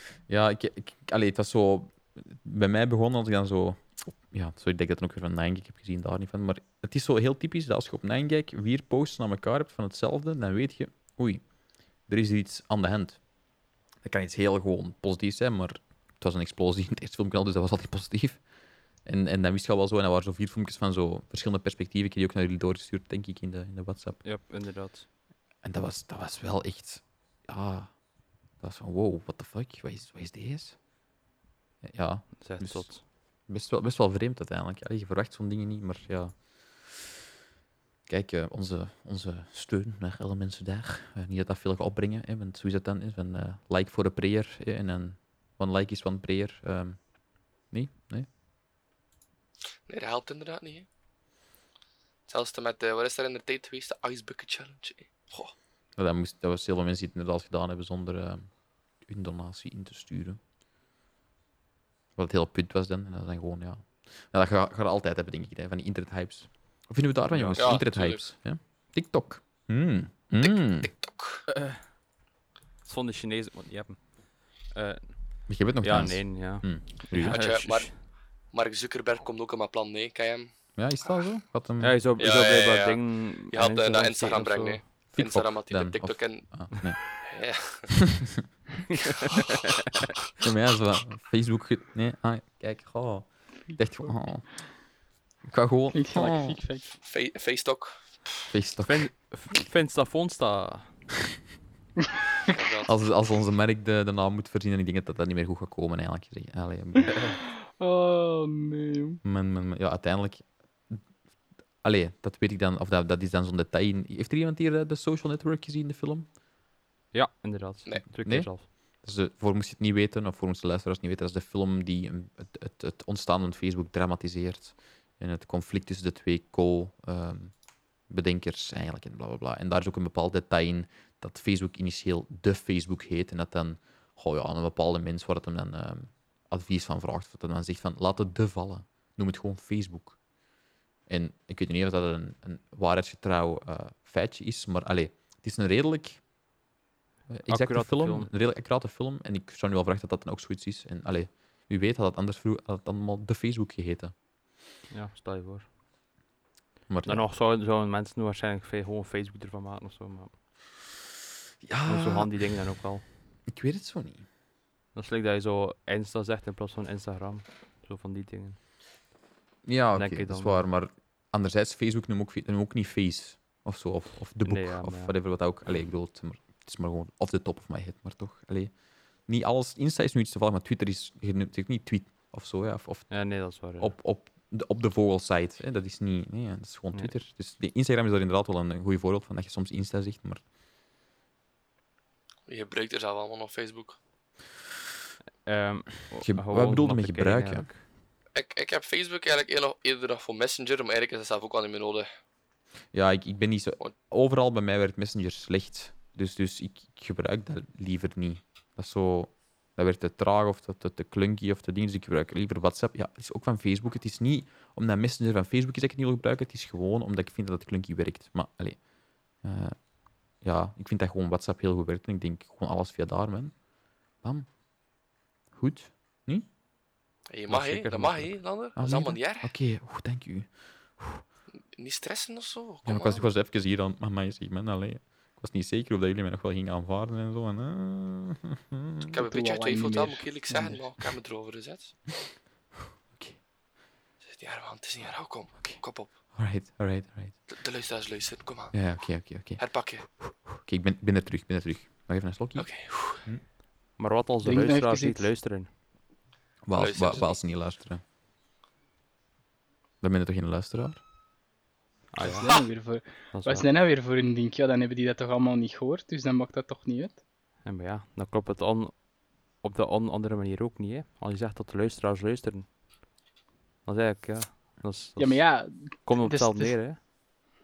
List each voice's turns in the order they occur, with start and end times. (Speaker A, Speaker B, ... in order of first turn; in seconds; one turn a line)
Speaker A: 0.3-11.4
Speaker A: 12.1-13.2
Speaker A: 14.0-18.4
Speaker A: 19.0-24.2
Speaker B: 24.2-25.1
Speaker A: 25.6-27.9
Speaker A: 28.6-30.8
Speaker A: 31.8-37.0
Speaker B: 32.4-33.0
Speaker A: 38.1-47.0
Speaker A: 47.7-48.3
Speaker C: 49.9-50.9
Speaker C: 52.3-55.5
Speaker A: 56.0-58.5
Speaker A: 59.0-60.4
Speaker A: 62.1-70.9
Speaker B: 67.3-67.8
Speaker C: 67.5-68.2
Speaker C: 70.4-71.4
Speaker B: 71.5-71.8
Speaker B: 72.8-78.0
Speaker A: 75.5-77.4
Speaker C: 77.3-80.5
Speaker A: 80.8-82.0
Speaker B: 81.8-84.8
Speaker C: 82.2-86.5
Speaker A: 85.1-87.3
Speaker C: 87.0-88.0
Speaker B: 88.9-89.2
Speaker A: 90.4-94.5
Speaker A: 95.5-96.6
Speaker D: 95.9-96.9
Speaker C: 97.0-98.0
Speaker A: 98.5-99.1
Speaker B: 98.8-100.9
Speaker C: 102.5-103.0
Speaker A: 102.8-107.1
Speaker D: 107.8-109.2
Speaker A: 109.2-111.0
Speaker A: 111.8-116.3
Speaker B: 117.1-118.7
Speaker A: 118.2-127.5
Speaker A: 128.1-140.2
Speaker A: 141.1-146.2
Speaker A: 147.3-154.1
Speaker B: 147.5-148.3
Speaker B: 154.9-155.7
Speaker A: 156.9-157.3
Speaker B: 157.1-160.4
Speaker A: 161.6-162.4
Speaker B: 161.9-163.0
Speaker A: 163.5-164.2
Speaker B: 164.9-168.6
Speaker A: 169.6-178.7
Speaker B: 169.9-170.6
Speaker B: 174.4-175.1
Speaker A: 179.3-190.4
Speaker B: 183.1-183.9
Speaker C: 192.5-194.0
Speaker B: 195.4-197.8
Speaker A: 196.2-197.7
Speaker C: 198.3-202.1
Speaker A: 202.9-219.8
Speaker A: 220.4-223.6
Speaker A: 224.2-224.5
Speaker A: 225.5-226.4
Speaker C: 227.3-229.5
Speaker B: 227.5-228.4
Speaker A: 228.8-231.2
Speaker C: 231.8-233.2
Speaker A: 232.8-239.2
Speaker C: 239.1-241.9
Speaker D: 239.2-240.8
Speaker A: 243.1-243.4
Speaker C: 244.2-246.1
Speaker A: 246.3-247.4
Speaker C: 247.5-248.9
Speaker A: 248.7-253.4
Speaker C: 249.6-250.1
Speaker C: 252.6-253.2
Speaker B: 254.0-255.7
Speaker D: 254.4-255.3
Speaker A: 256.6-258.0
Speaker C: 256.7-257.4
Speaker A: 260.0-261.0
Speaker B: 262.1-262.5
Speaker D: 262.2-267.2
Speaker B: 263.3-263.6
Speaker B: 267.6-269.0
Speaker B: 269.6-272.7
Speaker B: 273.8-277.0
Speaker D: 275.2-276.8